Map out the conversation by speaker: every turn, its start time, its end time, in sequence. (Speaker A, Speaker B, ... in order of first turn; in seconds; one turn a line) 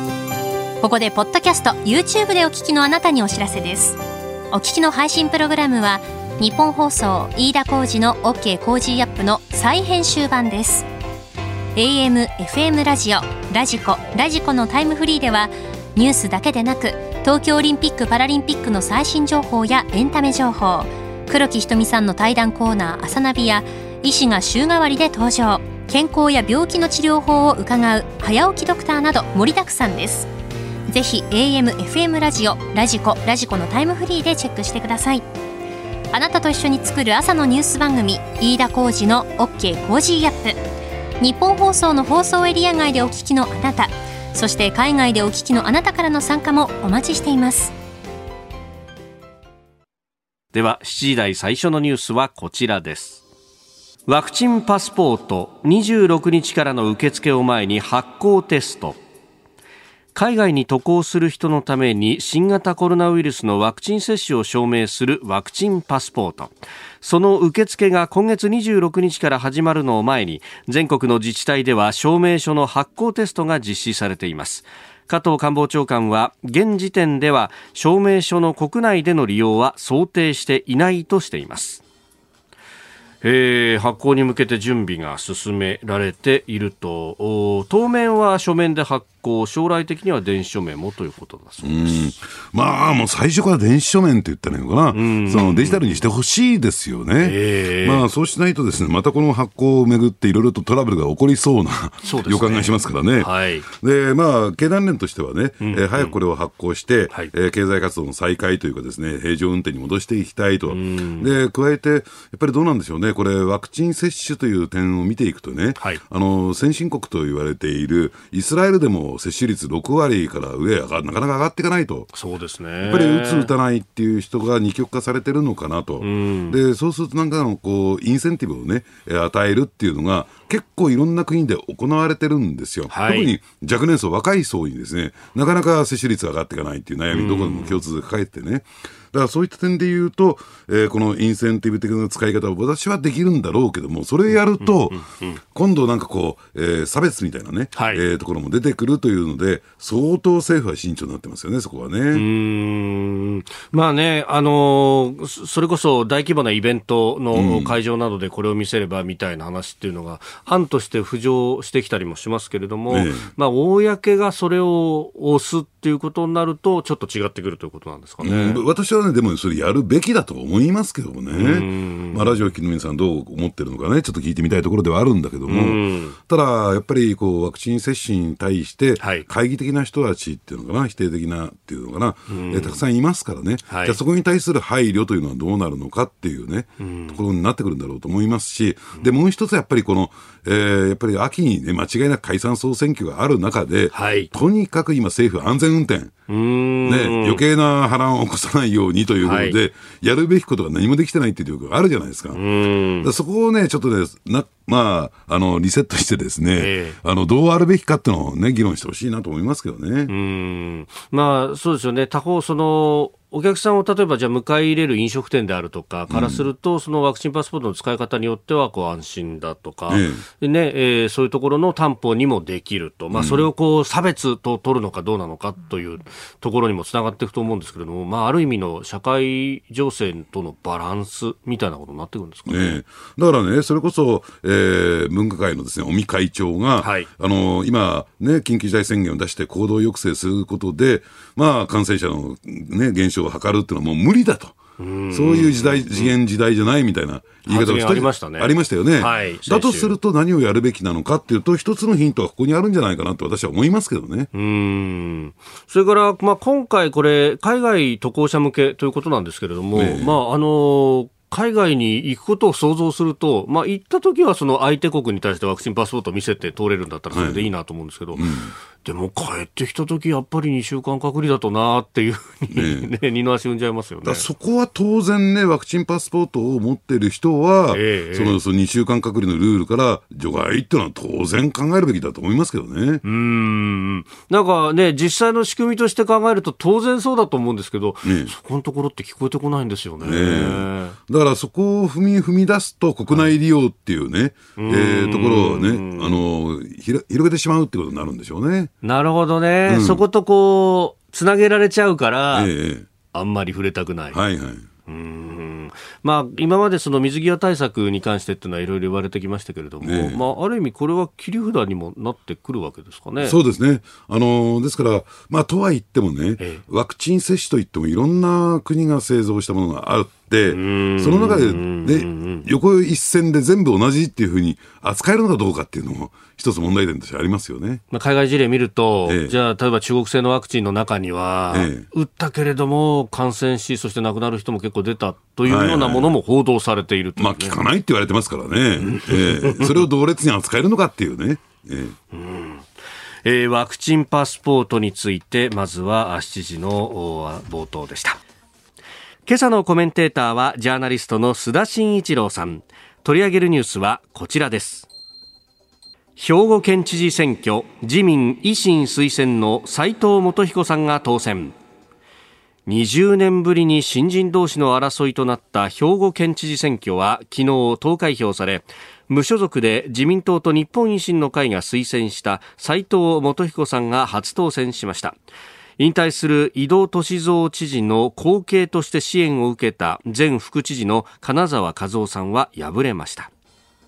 Speaker A: 0.8-4.0
Speaker A: 4.5-10.9
Speaker A: 11.8-30.3
Speaker A: 30.9-35.2
Speaker A: 36.1-40.6
Speaker A: 41.2-47.7
Speaker B: 50.5-53.2
Speaker B: 54.1-59.0
Speaker B: 60.1-81.8
Speaker B: 83.2-92.1
Speaker C: 91.6-122.1
Speaker B: 94.9-96.0
Speaker B: 97.2-98.1
Speaker B: 102.0-103.7
Speaker B: 105.6-106.2
Speaker B: 110.7-111.3
Speaker B: 122.1-123.5
Speaker C: 122.8-152.3
Speaker B: 126.0-126.6
Speaker B: 132.9-133.3
Speaker B: 137.1-137.8
Speaker B: 144.6-145.4
Speaker B: 147.8-148.0
Speaker B: 152.1-168.6
Speaker C: 157.3-157.8
Speaker C: 162.9-163.3
Speaker C: 168.2-196.1
Speaker B: 171.3-172.4
Speaker B: 175.5-176.2
Speaker B: 179.0-179.3
Speaker B: 182.3-182.8
Speaker B: 183.7-184.0
Speaker B: 186.8-187.2
Speaker B: 193.9-194.3
Speaker B: 196.3-197.4
Speaker C: 196.8-202.4
Speaker B: 199.2-199.6
Speaker B: 202.3-203.1
Speaker C: 203.0-210.1
Speaker B: 206.6-207.0
Speaker B: 210.1-232.8
Speaker C: 216.1-216.4
Speaker C: 219.9-220.2
Speaker C: 223.1-223.5
Speaker C: 232.5-244.6
Speaker B: 236.8-237.1
Speaker B: 244.8-246.1
Speaker C: 245.1-254.3
Speaker B: 247.5-249.9
Speaker B: 254.3-274.3
Speaker C: 259.8-260.2
Speaker C: 267.1-267.5
Speaker C: 268.1-268.5
Speaker C: 272.5-272.9
Speaker C: 274.0-283.0
Speaker B: 277.7-278.4
Speaker B: 283.0-291.0
Speaker C: 288.0-288.3
Speaker C: 290.0-298.7
Speaker B: 294.6-296.2
Speaker B: 298.8-302.5
Speaker C: 299.7-300.0
Speaker C: 302.3-302.9
Speaker B: 303.1-304.2
Speaker C: 304.1-304.7
Speaker B: 304.9-313.4
Speaker C: 309.8-310.2
Speaker C: 313.2-327.8
Speaker B: 320.5-322.5
Speaker B: 327.9-337.6
Speaker C: 329.1-329.4
Speaker C: 331.5-331.9
Speaker C: 335.4-336.1
Speaker C: 337.2-342.0
Speaker B: 338.8-339.8
Speaker B: 342.1-342.7
Speaker B: 343.2-348.2
Speaker B: 349.3-354.9
Speaker B: 356.2-361.5
Speaker B: 362.7-375.2
Speaker B: 375.8-383.3